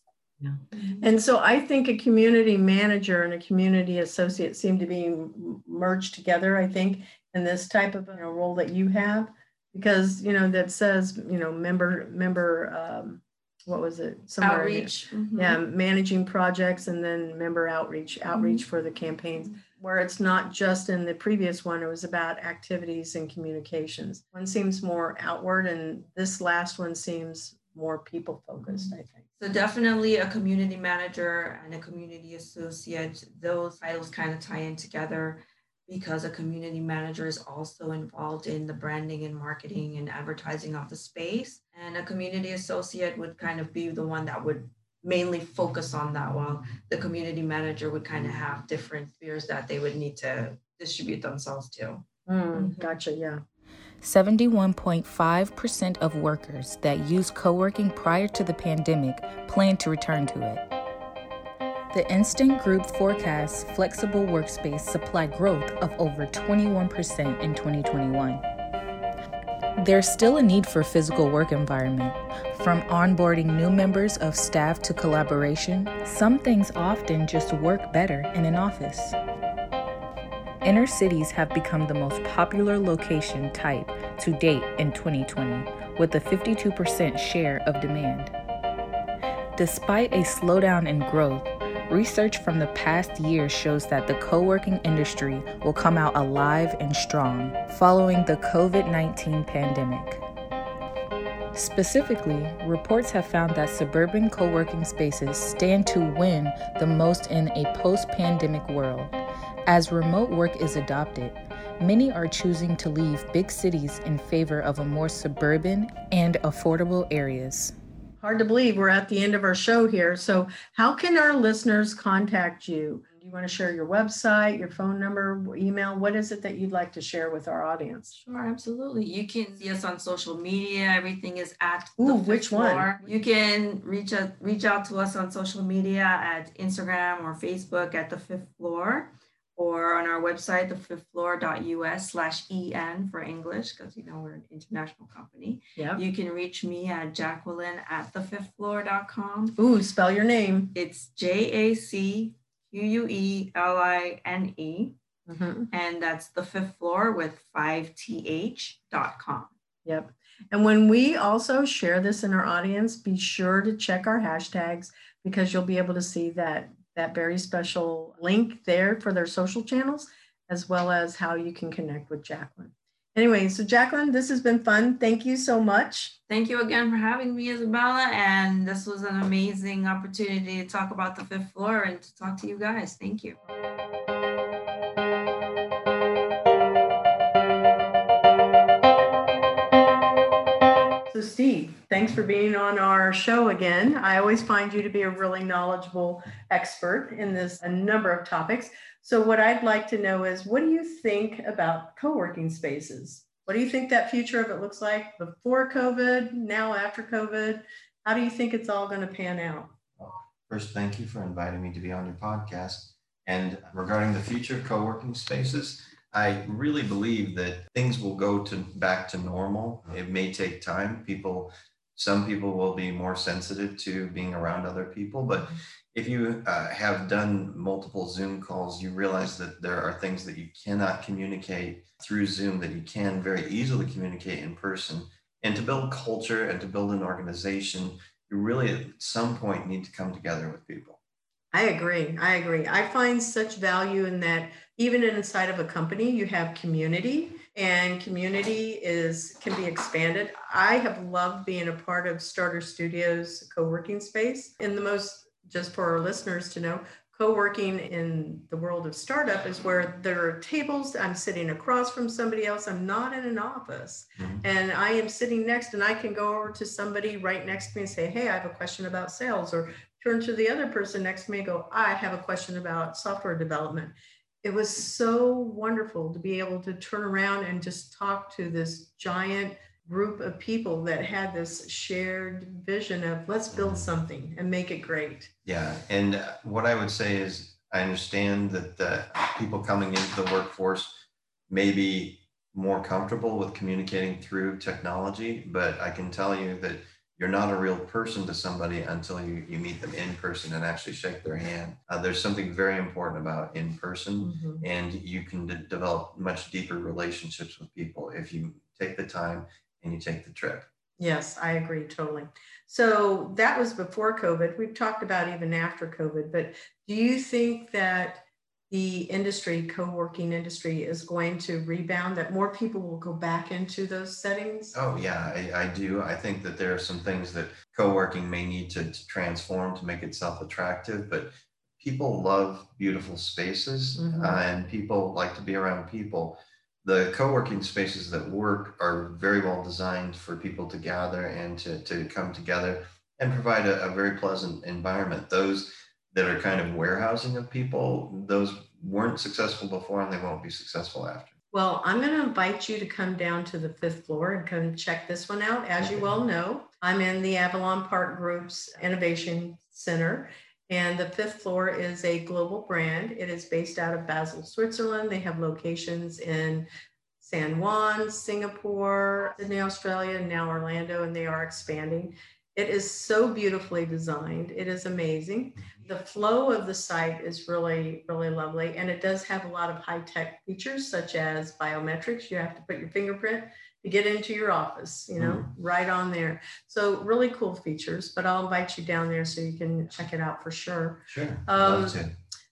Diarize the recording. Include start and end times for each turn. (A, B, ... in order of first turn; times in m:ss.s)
0:00.4-0:29.2 A
0:00.7-0:01.1 B
0:14.4-0:15.6 B
0:18.3-0:18.6 B
0:28.7-0:52.0 B
0:52.3-0:53.4 A
0:52.5-0:53.0 B
0:54.0-1:00.6 C
1:01.9-1:08.4 C
1:09.8-1:19.2 C
1:20.6-1:28.3 C
1:29.6-1:40.2 C
1:41.5-1:49.1 C
1:49.6-1:57.7 C
1:58.2-2:08.2 A
2:08.1-2:29.6 B
2:12.0-2:13.0 A
2:25.8-2:26.0 A
2:29.6-2:30.7 A
2:30.7-2:35.0 B
2:35.3-2:35.7 A
2:35.7-2:39.5 B
2:39.8-2:56.2 A
2:56.3-3:03.4 B
3:11.1-3:29.8 A
3:30.0-4:01.0 D
4:01.5-4:45.3 A
4:24.2-4:24.4 D
4:43.5-4:43.9 D
4:45.4-5:10.7 D
5:04.2-5:04.6 A
5:11.0-5:24.8 A
5:24.7-5:51.4 D
5:34.0-5:34.4 A
5:51.5-6:06.7 A
5:55.8-5:56.2 D
6:07.2-6:32.0 A
6:25.2-6:25.5 D
6:31.1-6:32.1 D